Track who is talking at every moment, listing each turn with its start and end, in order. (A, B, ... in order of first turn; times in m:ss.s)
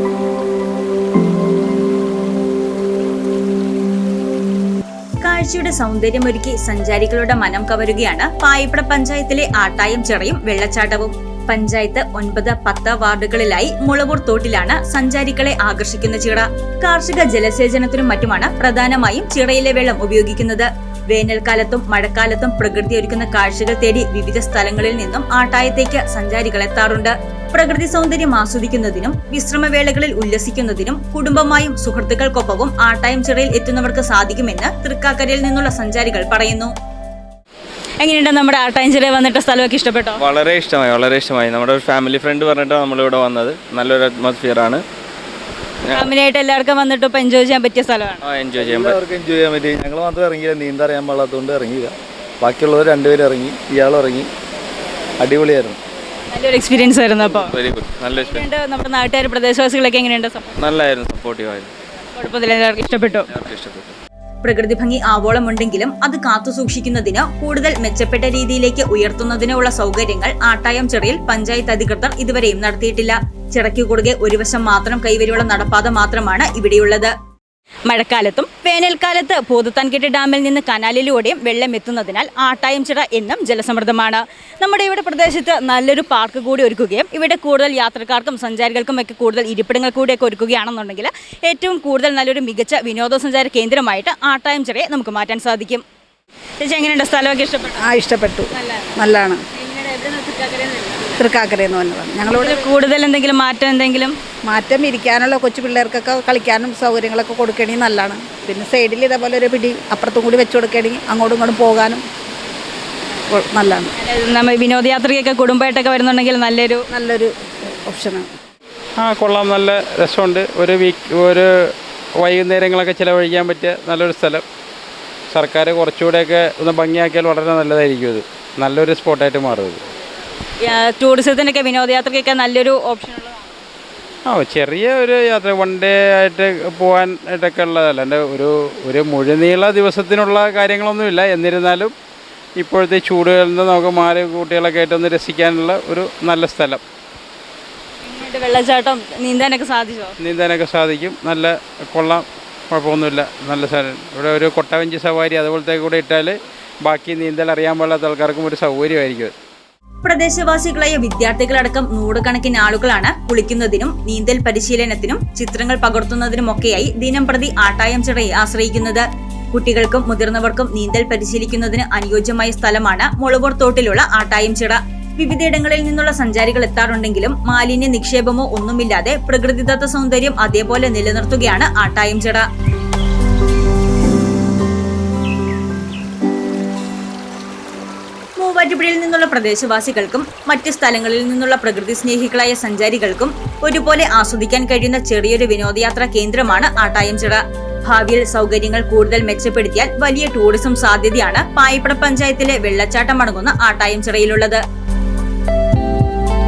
0:05.2-0:36.7 A
0:38.0-0:40.2 A
0:40.2-0:44.8 B
0:45.9-0:48.2 A
0:48.2-0:49.0 B
0:48.6-0:54.3 C
0:55.2-0:55.8 C
0:56.3-0:57.5 A
0:57.5-0:58.4 B
0:58.2-1:00.5 A
1:00.6-1:01.7 B
1:02.1-1:03.3 A
1:03.3-1:03.9 B
1:04.4-1:17.1 A
1:17.9-1:35.8 A
1:36.6-1:37.9 A
1:37.8-1:39.4 D
1:38.5-1:39.0 A
1:39.5-1:41.1 A
1:41.2-1:42.7 D
1:42.3-1:44.2 A
1:44.5-1:52.0 D
1:53.3-1:53.9 D
1:54.0-1:56.8 A
1:56.9-1:57.3 D
1:57.8-1:58.3 D
1:59.0-2:04.4 E
2:05.3-2:09.8 E
2:10.6-2:13.6 A
2:14.2-2:21.9 E
2:22.6-2:26.8 E
2:28.0-2:30.1 A
2:30.2-2:39.3 E
2:40.0-3:02.4 A
3:08.4-3:24.6 A